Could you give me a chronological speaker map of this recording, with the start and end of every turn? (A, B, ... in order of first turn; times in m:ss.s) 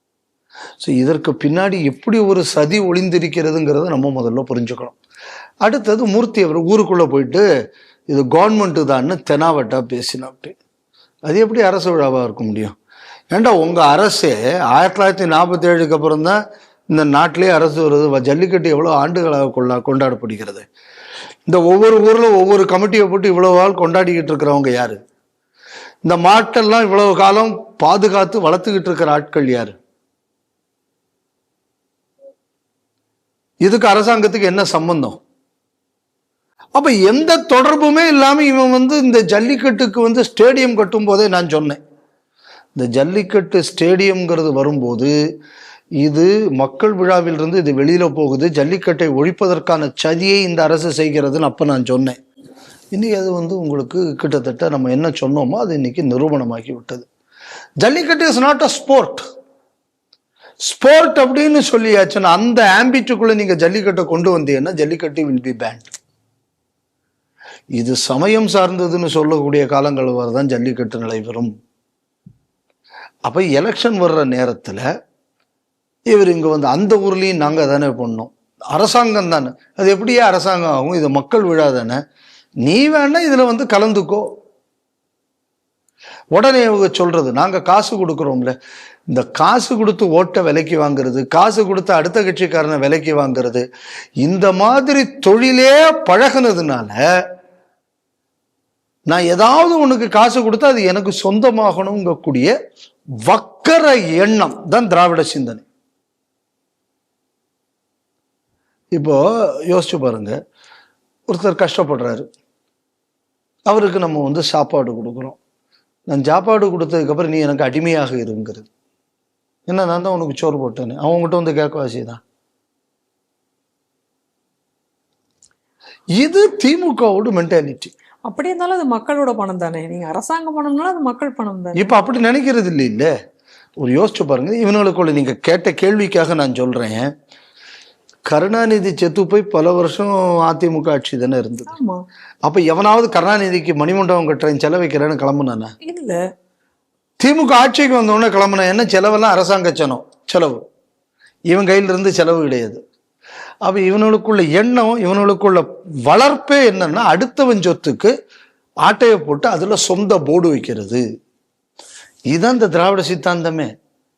0:00.8-0:05.0 A
0:05.6-0:07.4 A
0:08.1-0:10.6 A
0:11.3-0:12.8 A
0:13.3-0:16.4 A
0:16.9-0:20.7 A
0:21.5-0:25.0 A
0:26.1-0:29.8 A
0:33.6-0:35.2 A
0:36.8-0:41.8 A
0:42.8-0:45.1 A
0:46.0-0:52.2 A
0:53.0-0:57.1 A
0:57.8-0:59.3 A
1:00.7-1:05.9 A
1:07.8-1:11.5 A
1:13.3-1:14.8 A
1:16.1-1:22.0 A
1:22.6-1:24.2 A
1:26.3-1:28.6 A
1:29.1-1:33.7 A
1:34.2-1:37.0 A
1:39.1-1:42.5 A
1:43.3-1:45.6 A
1:49.0-1:50.4 A
1:51.3-1:52.3 A
1:53.7-1:55.4 A
1:56.1-1:58.7 A
1:59.7-2:02.2 A
2:06.2-2:07.9 A
2:08.3-2:11.9 B
2:11.8-2:13.1 A
2:13.8-2:17.1 A
2:18.3-2:21.8 A
2:21.7-2:22.0 B
2:22.5-2:25.7 A
2:25.8-2:26.2 B
2:27.2-2:30.6 A
2:31.5-2:32.8 A
2:33.6-2:38.1 A
2:38.8-2:41.0 A
2:42.3-2:43.7 A